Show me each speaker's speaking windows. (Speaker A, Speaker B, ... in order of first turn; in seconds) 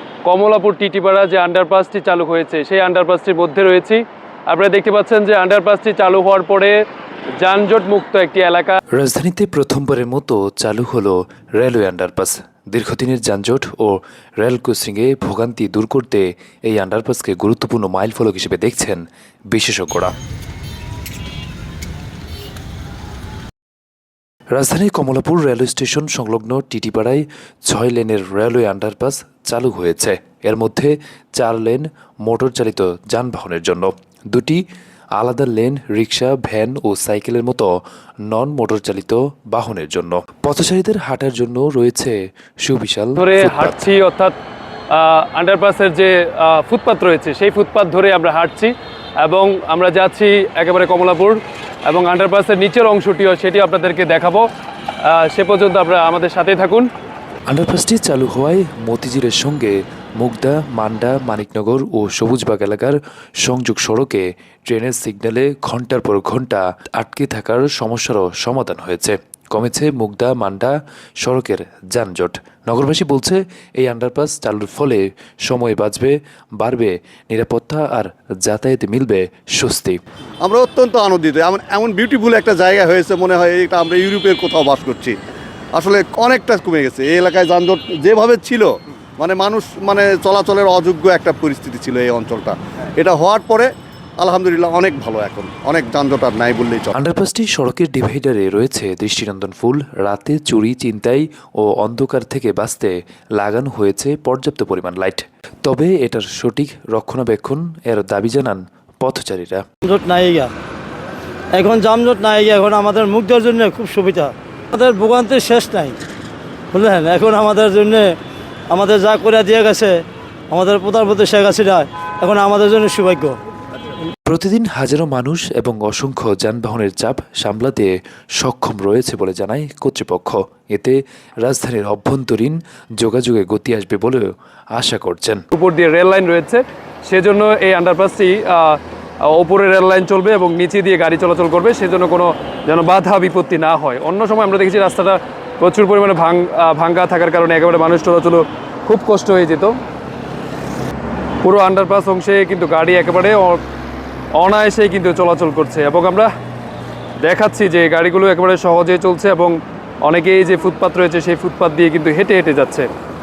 Speaker A: 0.2-6.8, 7.4-8.8, 43.2-44.3, 44.9-54.5, 55.0-56.9, 135.5-149.8, 151.4-153.6, 154.4-156.3, 157.2-162.9
Speaker B: 8.9-20.1, 24.5-34.6, 35.2-37.7, 38.3-43.9, 57.5-80.0, 96.9-109.6, 124.3-135.4
Speaker C: 80.4-85.2, 85.8-96.9
Speaker D: 109.8-110.5, 111.5-116.0, 116.7-118.1, 118.7-123.4